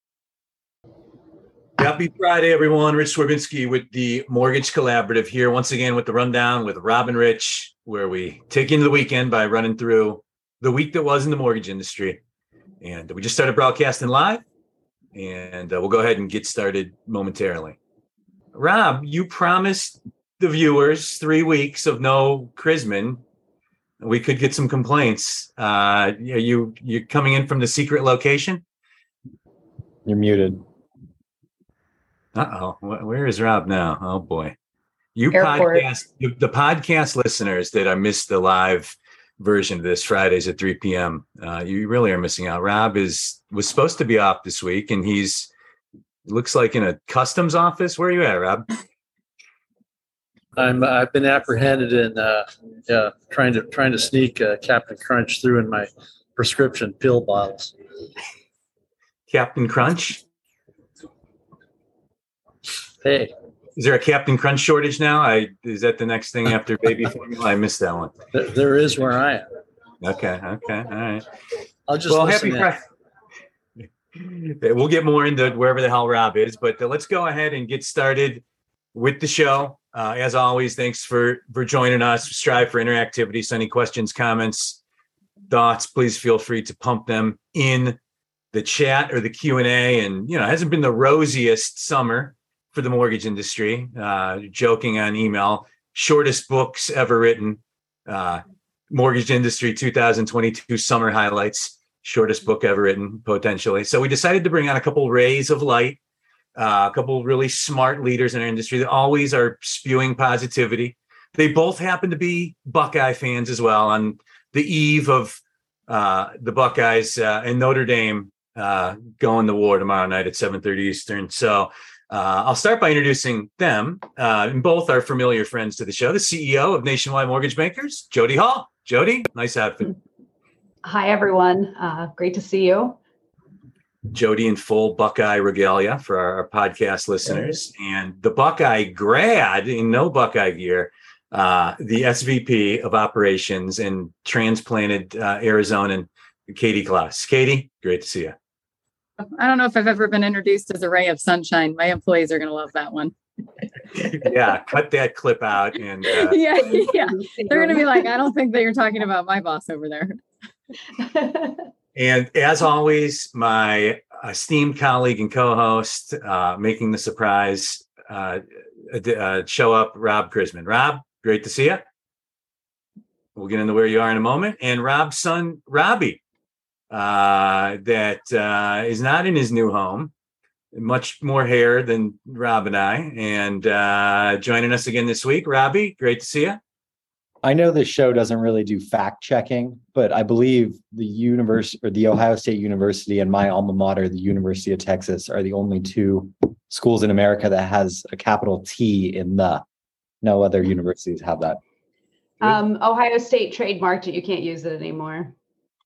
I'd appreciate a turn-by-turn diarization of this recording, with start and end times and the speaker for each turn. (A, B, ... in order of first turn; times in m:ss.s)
0:01.8-0:12.2 A
0:12.8-0:14.4 A
0:15.2-0:17.8 A
0:18.5-0:23.2 A
0:24.0-0:28.6 A
0:30.1-0:30.6 B
0:32.4-0:34.6 A
0:35.2-0:45.5 A
0:35.3-0:35.8 C
0:46.3-0:48.7 A
0:50.6-0:57.7 D
0:59.3-1:00.2 A
1:03.0-1:03.3 D
1:03.8-1:08.1 A
1:08.3-1:09.5 D
1:10.0-1:11.3 A
1:11.9-1:12.7 D
1:12.1-1:12.8 A
1:14.2-1:18.4 A
1:18.9-1:24.8 A
1:25.5-1:28.0 A
1:28.5-1:46.0 A
1:46.6-2:10.0 A
2:10.8-2:13.0 C
2:14.1-2:28.4 A
2:29.4-2:33.1 E
2:34.0-2:36.4 A
2:36.1-2:40.2 E
2:36.7-2:38.0 C
2:41.0-2:41.6 C
2:42.0-2:51.8 A
2:53.4-2:56.2 A
2:56.9-3:00.1 A
3:00.7-3:06.6 A
3:07.4-3:19.6 B
3:20.2-3:21.6 B
3:22.4-3:25.3 C